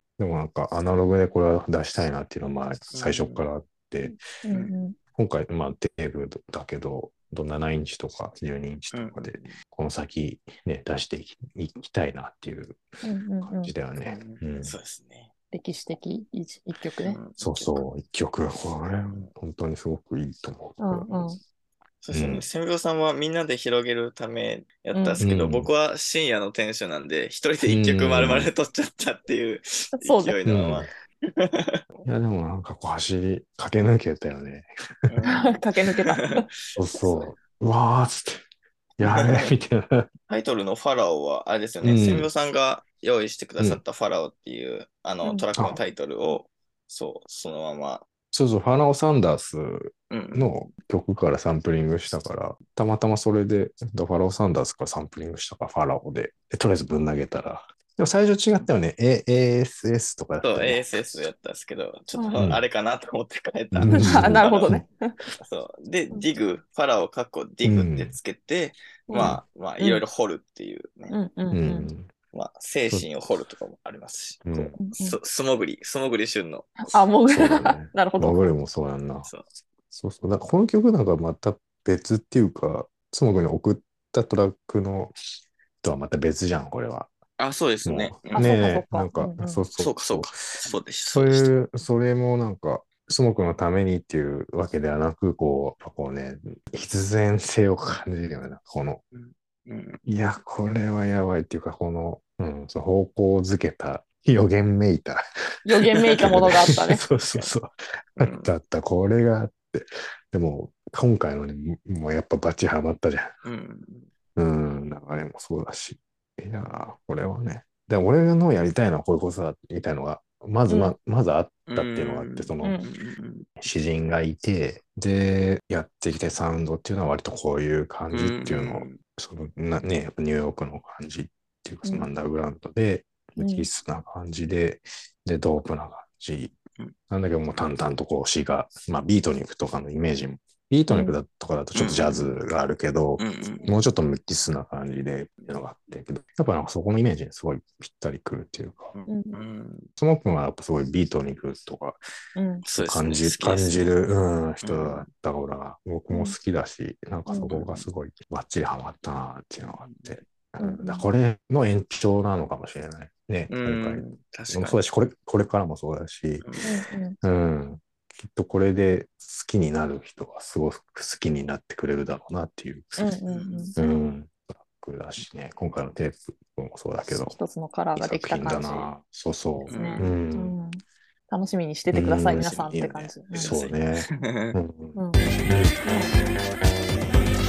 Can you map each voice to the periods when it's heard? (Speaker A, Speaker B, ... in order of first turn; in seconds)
Speaker A: 0.2-4.2, 5.2-12.8, 13.4-14.8, 17.4-21.1, 22.1-22.5, 25.2-25.7, 27.7-28.5, 30.4-30.9, 32.0-35.1, 36.8-38.4, 39.0-40.1, 41.8-42.3, 48.3-60.9, 62.4-62.6, 63.7-64.8, 67.6-68.2, 69.2-69.4, 71.5-72.1, 74.5-74.8, 77.3-79.3, 79.9-85.1, 85.8-87.1, 87.8-99.0, 100.1-113.3, 114.3-122.8, 123.6-136.6, 137.1-148.9, 150.0-152.0, 152.8-166.5, 167.2-172.9, 173.8-177.4, 177.9-180.6, 181.9-185.8
Speaker B: 2.9-3.5, 8.9-9.6, 14.0-15.3, 17.0-17.8, 22.0-32.1, 35.1-36.5, 39.0-39.5, 40.3-48.0, 50.1-50.6, 60.4-64.7, 65.4-71.2, 72.3-76.9, 87.4-88.6, 89.8-91.5, 99.1-100.0, 106.1-106.5, 108.2-108.5, 113.4-114.1, 121.7-123.5, 128.1-129.0, 141.7-142.3, 143.2-143.7, 148.9-149.9, 152.7-153.9, 154.6-155.1, 157.5-157.9, 159.8-160.1, 163.5-164.8, 166.4-166.7, 173.3-173.8, 179.7-180.1, 182.3-182.7, 183.3-184.6
Speaker C: 4.4-5.0, 13.0-13.7, 15.5-17.2, 20.8-21.4, 24.9-25.2, 30.0-30.4, 35.3-36.5, 62.2-62.4, 63.9-65.1, 69.1-70.0, 71.1-71.9, 74.8-75.2, 76.9-78.5, 88.3-89.7, 105.7-107.0, 120.7-120.9, 131.8-132.1, 133.4-133.7, 140.9-141.2, 149.1-149.4, 152.4-152.6, 157.3-157.5, 160.6-161.1, 166.6-167.2, 173.0-173.8, 177.3-178.9, 179.7-183.6, 184.9-185.3, 185.8-186.1